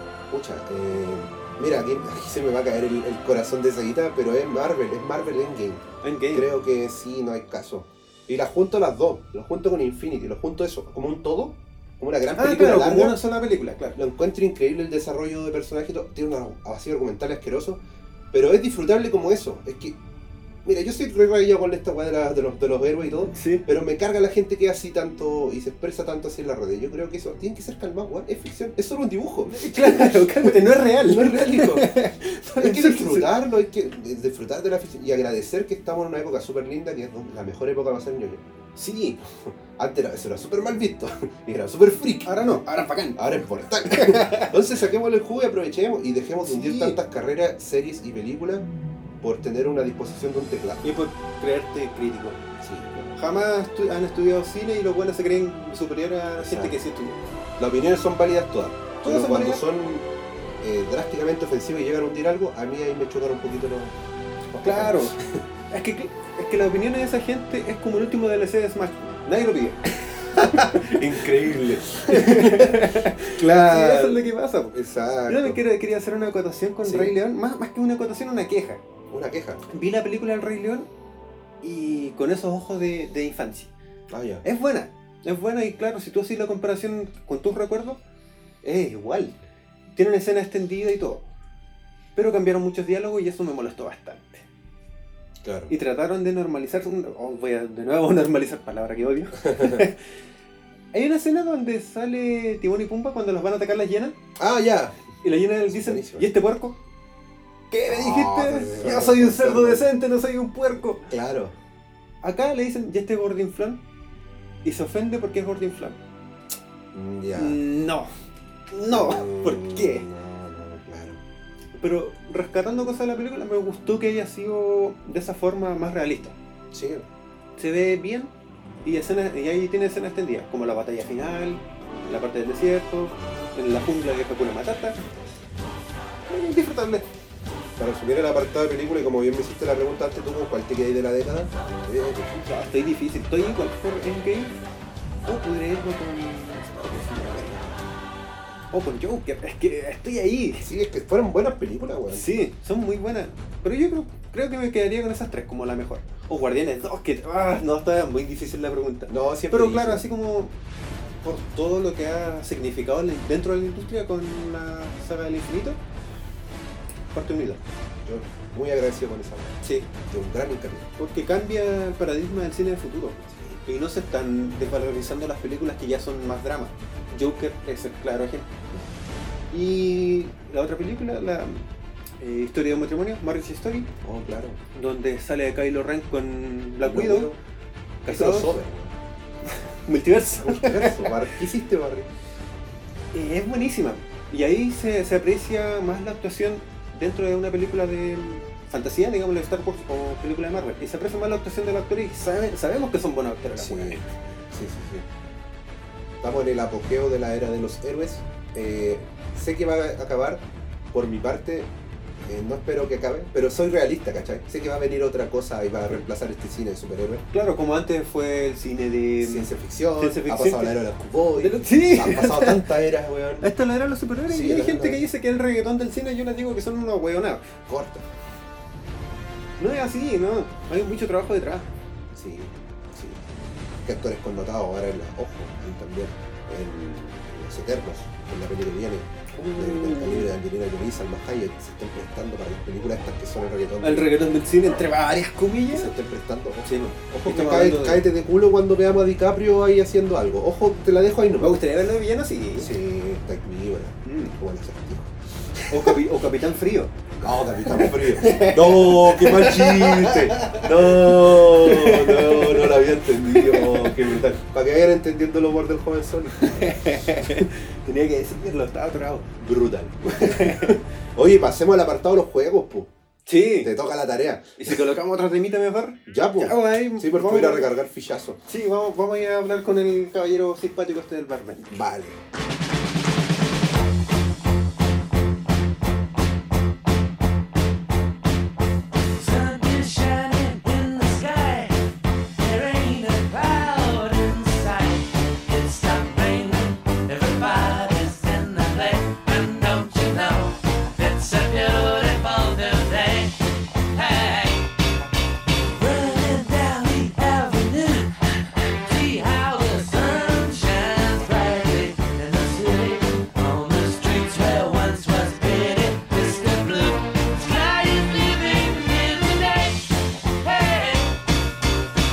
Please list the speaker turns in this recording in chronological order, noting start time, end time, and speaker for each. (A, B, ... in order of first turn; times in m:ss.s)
0:00.3-0:13.2 A
0:06.0-0:06.5 B
0:12.4-0:14.0 B
0:13.9-0:17.8 A
0:18.3-0:20.0 A
0:20.6-0:32.0 A
0:23.3-0:23.6 B
0:29.5-0:33.3 B
0:32.5-0:38.4 A
0:38.8-0:39.2 B
0:39.8-0:42.4 A
0:42.2-0:43.2 B
0:43.2-0:48.7 A
0:43.8-0:44.6 B
0:46.4-0:47.0 B
0:49.2-0:50.8 A
0:50.8-0:52.4 B
0:52.6-0:52.9 A
0:52.9-0:57.2 B
0:56.4-0:56.8 A
0:57.6-1:00.1 A
0:59.0-0:59.6 B
1:00.6-1:04.0 A
1:04.5-1:05.4 A
1:04.6-1:05.1 B
1:05.7-1:11.5 B
1:10.3-1:14.2 A
1:12.0-1:18.8 B
1:14.7-1:15.6 A
1:16.8-1:17.1 A
1:19.1-1:19.6 A
1:19.7-1:20.9 B
1:21.6-1:23.7 B
1:24.1-1:24.4 A
1:24.4-1:28.0 B
1:28.6-1:29.4 B
1:29.9-1:31.2 B
1:32.2-1:34.4 B
1:35.4-1:35.7 A
1:35.7-1:40.0 B
1:39.4-1:39.9 A
1:40.9-1:44.2 B
1:44.4-1:45.0 A
1:45.2-1:46.8 B
1:45.6-1:46.3 A
1:47.7-1:51.1 B
1:47.9-1:49.9 A
1:51.1-1:51.5 A
1:52.2-1:53.8 B
1:54.6-1:56.0 B
1:56.9-1:57.6 A
1:57.3-1:58.1 B
1:58.7-2:00.1 B
1:58.9-2:01.2 A
2:01.8-2:06.3 B
2:06.7-2:07.1 A
2:07.6-2:08.3 B
2:08.8-2:15.0 B
2:16.3-2:17.0 B
2:17.8-2:22.4 A
2:22.4-2:24.5 B
2:25.2-2:27.8 B
2:28.7-2:30.7 B
2:30.6-2:32.3 A
2:32.1-2:40.5 B
2:39.1-2:40.0 A
2:41.2-2:45.8 B
2:47.1-2:47.6 B
2:48.0-2:50.9 A
2:49.6-2:49.9 B
2:51.0-2:58.5 B
2:53.3-2:53.6 A
2:59.5-3:01.6 B
3:02.2-3:03.9 B
3:04.0-3:04.6 A
3:04.7-3:07.3 B
3:06.8-3:07.4 A
3:08.0-3:08.5 B
3:08.1-3:09.0 A
3:09.8-3:11.3 B
3:10.3-3:12.1 A
3:13.1-3:24.0 B
3:23.5-3:25.1 A
3:26.2-3:37.2 A
3:37.3-3:40.7 B
3:39.2-3:43.5 A
3:41.4-3:42.7 B
3:43.4-3:47.5 B
3:44.3-3:45.0 A
3:47.7-3:48.1 A
3:49.6-3:51.7 B
3:52.1-3:53.2 A
3:53.8-4:04.1 A
3:59.4-4:00.3 B
4:03.8-4:05.9 B
4:05.7-4:11.6 A
4:06.6-4:08.0 B
4:11.4-4:12.7 B
4:12.6-4:16.0 A
4:14.0-4:14.3 B
4:15.7-4:16.9 B
4:17.2-4:27.4 A
4:17.6-4:24.1 B
4:26.4-4:29.3 B
4:29.4-4:32.9 A
4:30.1-4:30.8 B
4:33.3-4:33.7 B
4:33.6-4:34.8 A
4:34.6-4:37.7 B
4:36.1-4:38.4 A
4:38.5-4:41.8 B
4:41.7-4:42.2 A
4:49.2-5:04.7 C
5:05.7-5:21.2 C